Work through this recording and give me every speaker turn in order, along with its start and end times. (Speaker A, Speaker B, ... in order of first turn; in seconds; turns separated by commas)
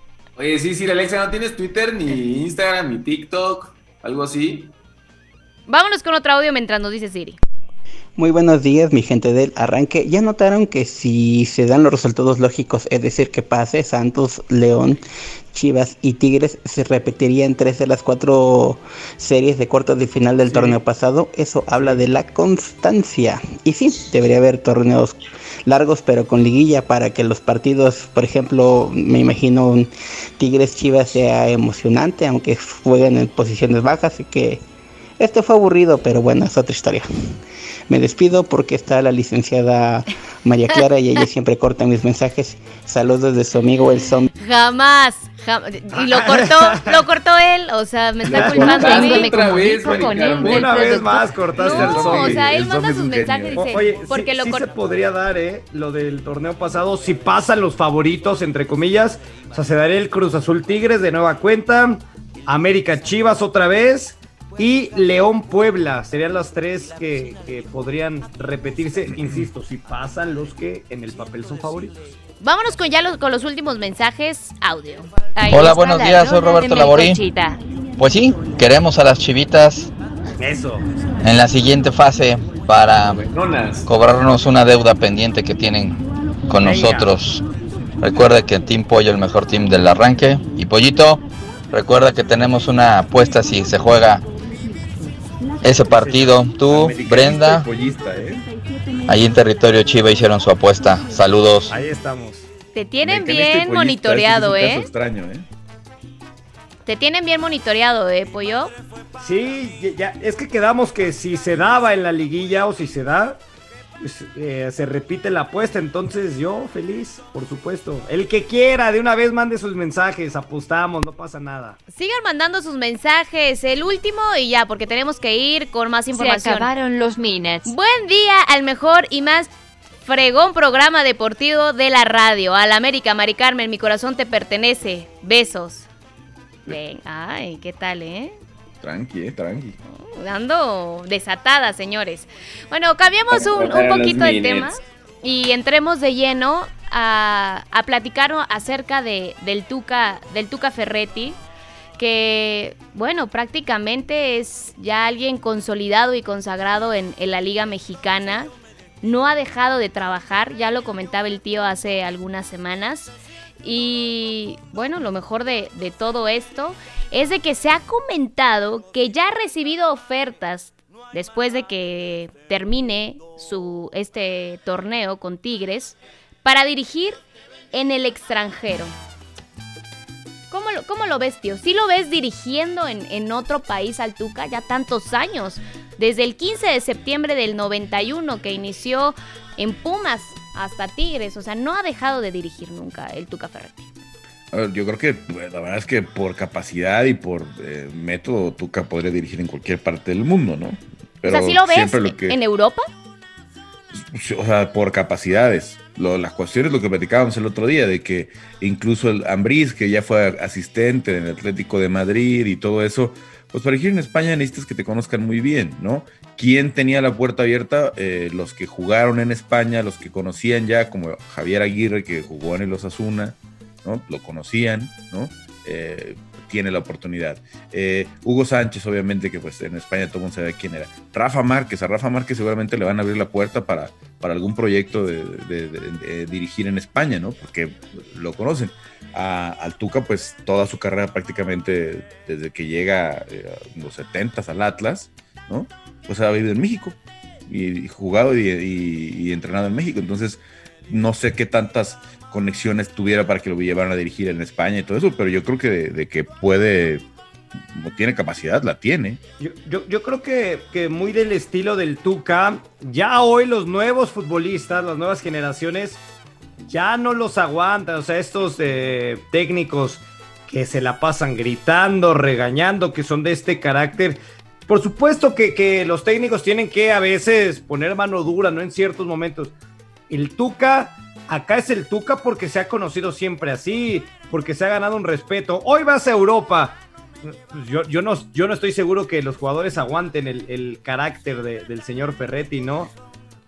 Speaker A: 0.4-4.7, Speaker B: 5.7-7.4, Speaker C: 8.2-15.0, Speaker C: 15.5-34.6, Speaker D: 20.5-20.8, Speaker C: 35.2-37.1, Speaker C: 37.9-44.3, Speaker B: 44.4-54.7, Speaker D: 45.9-47.0, Speaker D: 48.3-49.0, Speaker E: 48.3-48.8, Speaker F: 48.8-51.2, Speaker A: 48.8-50.8, Speaker D: 50.4-52.5, Speaker E: 51.6-53.7, Speaker D: 53.6-72.0, Speaker E: 69.2-69.5, Speaker B: 72.4-77.0, Speaker F: 75.4-77.6, Speaker G: 75.5-77.2, Speaker G: 78.0-79.9, Speaker D: 80.4-80.8, Speaker G: 81.2-83.2, Speaker A: 82.8-84.3, Speaker G: 83.9-87.4, Speaker D: 86.6-87.1, Speaker G: 88.0-94.2, Speaker G: 95.6-97.7, Speaker E: 95.9-98.5, Speaker G: 99.1-101.7, Speaker D: 101.7-102.5, Speaker B: 102.7-104.9, Speaker E: 103.0-105.5, Speaker B: 106.8-108.7, Speaker D: 109.2-113.4, Speaker D: 114.0-121.8, Speaker B: 121.9-126.7, Speaker F: 126.1-127.7, Speaker B: 127.7-129.5, Speaker B: 130.0-135.9, Speaker B: 136.7-138.3, Speaker E: 138.8-139.8, Speaker B: 139.9-151.4, Speaker A: 143.3-144.8, Speaker B: 152.0-158.5, Speaker B: 159.0-163.1, Speaker B: 163.6-177.2, Speaker B: 177.7-178.9, Speaker B: 180.5-193.9, Speaker E: 194.5-202.4, Speaker B: 201.3-202.9, Speaker E: 203.9-257.0, Speaker E: 257.7-259.2, Speaker D: 259.4-266.0, Speaker D: 266.7-279.5, Speaker D: 280.1-292.9